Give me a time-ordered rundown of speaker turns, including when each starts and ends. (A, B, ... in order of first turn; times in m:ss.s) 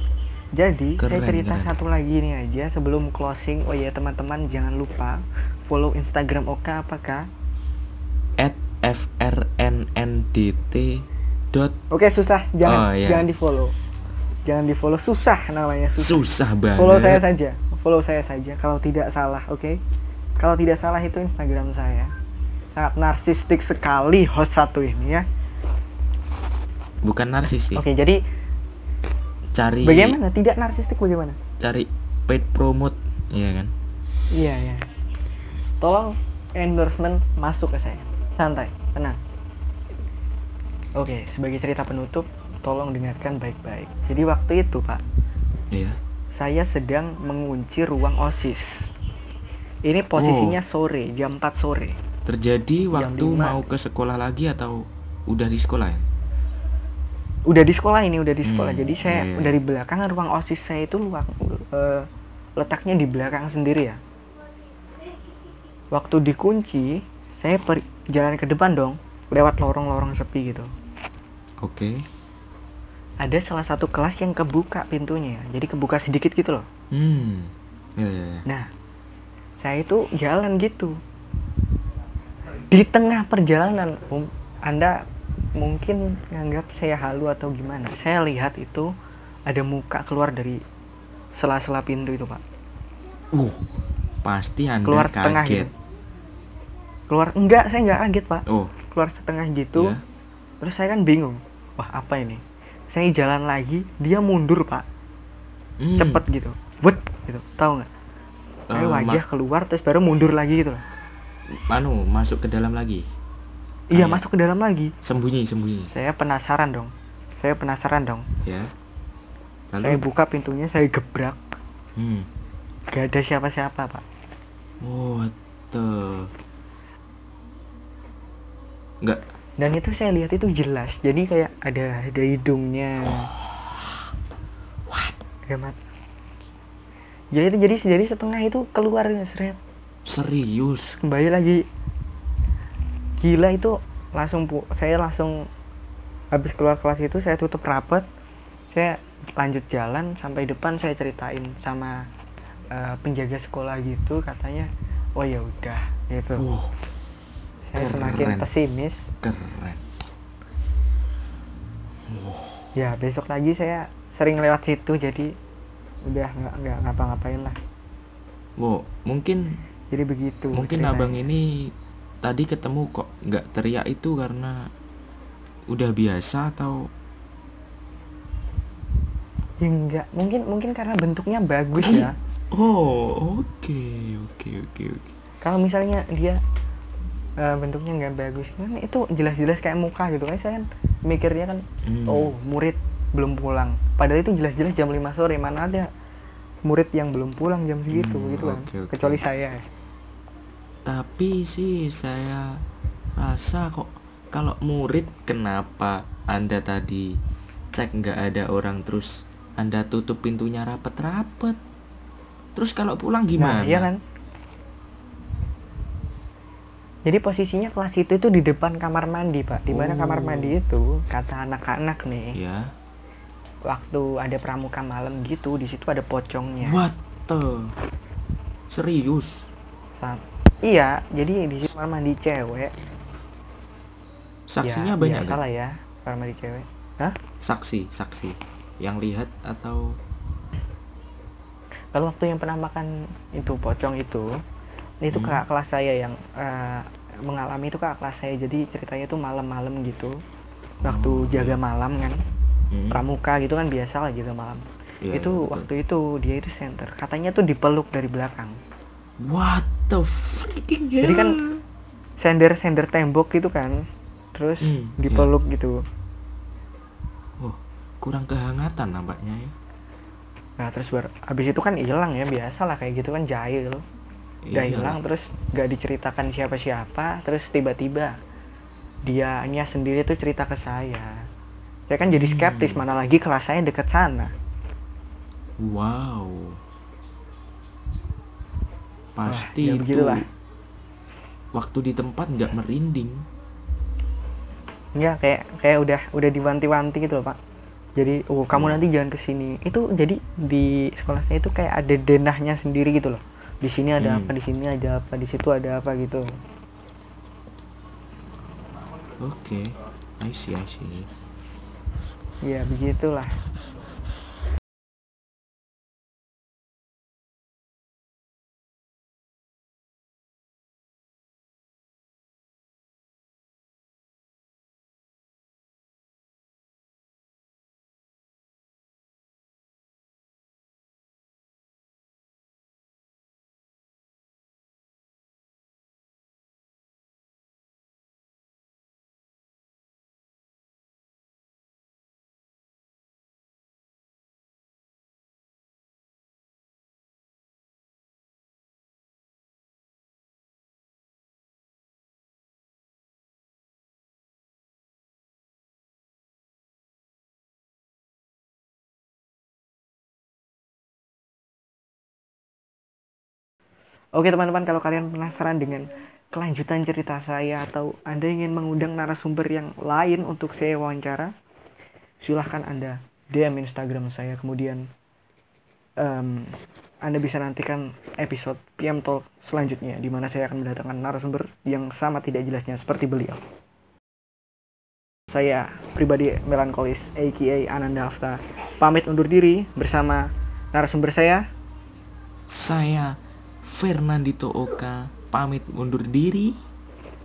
0:00.5-0:07.3 A
0:01.0-0:01.7 B
0:08.4-0:11.8 B
0:11.9-0:13.7 A
0:12.6-0:13.3 B
0:14.4-0:16.2 A
0:16.0-0:17.2 B
0:16.8-0:19.8 A
0:20.4-0:22.1 A
0:22.7-0:25.2 A
0:27.0-0:27.8 B
0:27.7-0:28.2 A
0:29.5-0:30.2 B
0:29.8-0:31.4 A
0:31.6-0:33.7 B
0:34.3-0:35.0 A
0:35.8-0:39.2 A
0:41.0-0:45.0 A
0:45.7-0:46.0 B
0:46.3-0:48.9 A
0:49.8-0:52.0 A
0:50.2-0:50.6 B
0:52.2-0:56.0 B
0:52.9-0:53.6 A
0:57.5-1:04.0 A
0:58.4-0:59.6 B
1:05.9-1:10.7 A
1:11.6-1:12.0 B
1:13.2-1:16.7 A
1:16.9-1:18.4 B
1:19.6-1:21.0 A
1:22.7-1:25.0 A
1:25.6-1:28.9 A
1:29.5-1:30.6 A
1:31.4-1:32.4 A
1:33.3-1:33.6 B
1:34.2-1:35.7 B
1:34.8-1:35.7 A
1:37.1-1:40.0 A
1:38.5-1:38.7 B
1:39.7-1:40.0 B
1:40.6-1:44.8 A
1:45.8-1:46.2 B
1:45.9-1:47.9 A
1:48.7-1:49.2 B
1:48.7-1:50.8 A
1:51.5-1:53.0 B
1:53.9-1:54.9 A
1:53.9-1:54.2 B
1:55.0-1:55.9 B
1:55.9-1:58.3 A
1:58.4-1:58.7 B
1:59.7-2:00.0 B
1:59.8-2:01.4 A
2:02.0-2:02.3 B
2:02.9-2:04.0 A
2:04.8-2:06.3 B
2:09.6-2:13.3 A
2:15.5-2:15.8 A
2:17.3-2:19.6 A
2:20.0-2:21.0 B
2:20.9-2:21.6 A
2:23.2-2:25.5 A
2:26.3-2:28.1 A
2:28.7-2:32.1 A
2:32.7-2:36.4 A
2:36.4-2:36.7 B
2:37.6-2:39.1 A
2:37.8-2:38.5 B
2:39.2-2:39.8 B
2:42.1-2:42.7 B
2:42.7-2:45.3 A
2:46.0-2:47.6 A
2:48.6-2:49.6 B
2:49.9-2:51.2 A
2:50.5-2:51.7 B
2:52.2-2:54.6 B
2:55.7-2:56.9 B
2:59.6-3:02.1 A
3:01.8-3:05.1 B
3:05.4-3:06.4 A
3:07.4-3:15.9 A
3:11.8-3:12.3 B
3:16.6-3:19.6 A
3:17.9-3:19.2 B
3:20.8-3:22.6 B
3:23.2-3:27.1 B
3:27.7-3:31.6 B
3:32.5-3:33.9 B
3:33.4-3:34.0 A
3:37.0-3:42.4 A
3:39.7-3:40.6 B
3:42.3-3:42.7 B
3:43.6-3:46.8 A
3:46.6-3:47.7 B
3:48.7-3:49.5 B
3:50.0-3:52.7 A
3:54.5-3:55.4 B
3:54.6-3:57.2 A
3:57.4-3:59.9 B
4:01.9-4:04.4 A
4:05.0-4:10.2 A
4:05.1-4:05.4 B
4:10.8-4:11.6 B
4:10.8-4:12.2 A
4:12.7-4:13.0 B
4:12.9-4:18.6 A
4:15.0-4:15.6 B
4:19.2-4:21.6 B
4:21.0-4:21.4 A
4:22.2-4:25.8 A
4:24.6-4:25.3 B
4:27.4-4:29.5 B
4:30.6-4:33.8 A
4:34.4-4:35.0 B
4:34.5-4:38.2 A
4:39.0-4:41.2 A
4:41.9-4:44.3 A
4:42.1-4:42.8 B
4:45.6-4:46.6 B
4:49.2-4:50.2 B
4:49.3-4:50.2 A
4:51.5-4:53.2 B
4:55.0-4:57.4 A
4:58.0-5:06.2 A
4:58.5-4:58.8 B
5:04.0-5:04.3 B
5:09.2-5:11.1 B
5:12.4-5:13.3 A
6:04.1-6:11.3 A
6:12.2-6:14.9 A
6:16.0-6:23.4 A
6:25.3-6:31.4 A
6:32.5-6:36.6 B